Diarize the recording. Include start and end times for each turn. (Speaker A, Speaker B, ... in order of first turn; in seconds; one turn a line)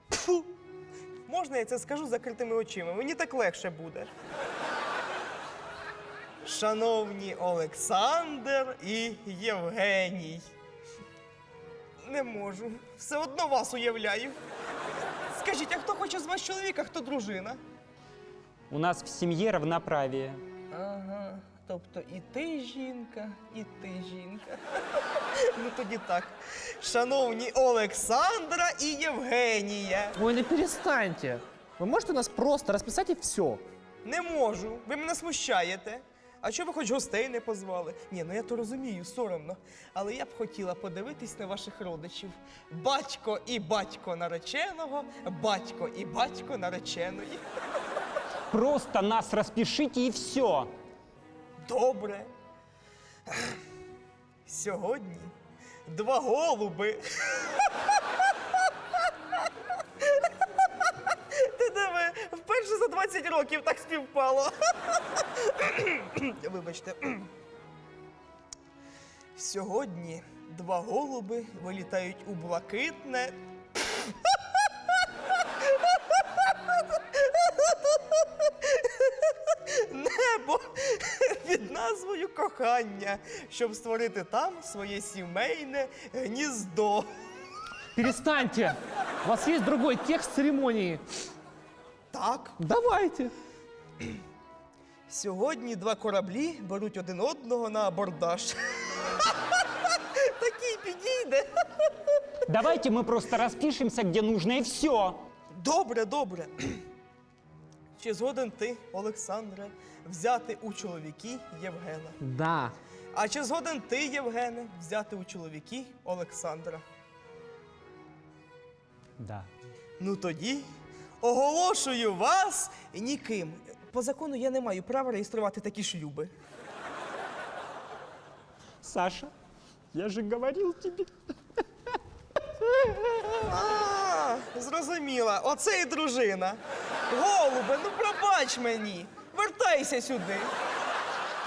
Speaker A: 1.3-4.1
Speaker A: 6.4-10.4
Speaker A: 12.0-14.4
Speaker A: 15.2-17.6
Speaker B: 18.7-20.4
Speaker A: 20.7-24.6
Speaker A: 25.2-30.2
Speaker C: 30.2-33.6
Speaker A: 34.0-47.4
Speaker B: 48.5-50.7
Speaker A: 51.6-52.3
Speaker A: 53.3-53.5
Speaker A: 54.5-55.3
Speaker A: 55.9-57.7
Speaker A: 60.8-67.3
Speaker A: 69.3-73.4
Speaker A: 74.2-87.1
Speaker C: 87.9-91.0
Speaker A: 92.1-92.6
Speaker C: 92.6-93.3
Speaker A: 95.1-101.9
Speaker B: 102.5-105.2
Speaker A: 105.5-106.8
Speaker A: 108.0-112.2
Speaker C: 112.2-112.7
Speaker A: 113.1-116.8
Speaker B: 119.2-119.5
Speaker A: 120.0-120.7
Speaker A: 121.2-126.3
Speaker B: 128.8-129.3
Speaker B: 129.9-131.1
Speaker A: 133.4-136.6
Speaker A: 137.1-140.5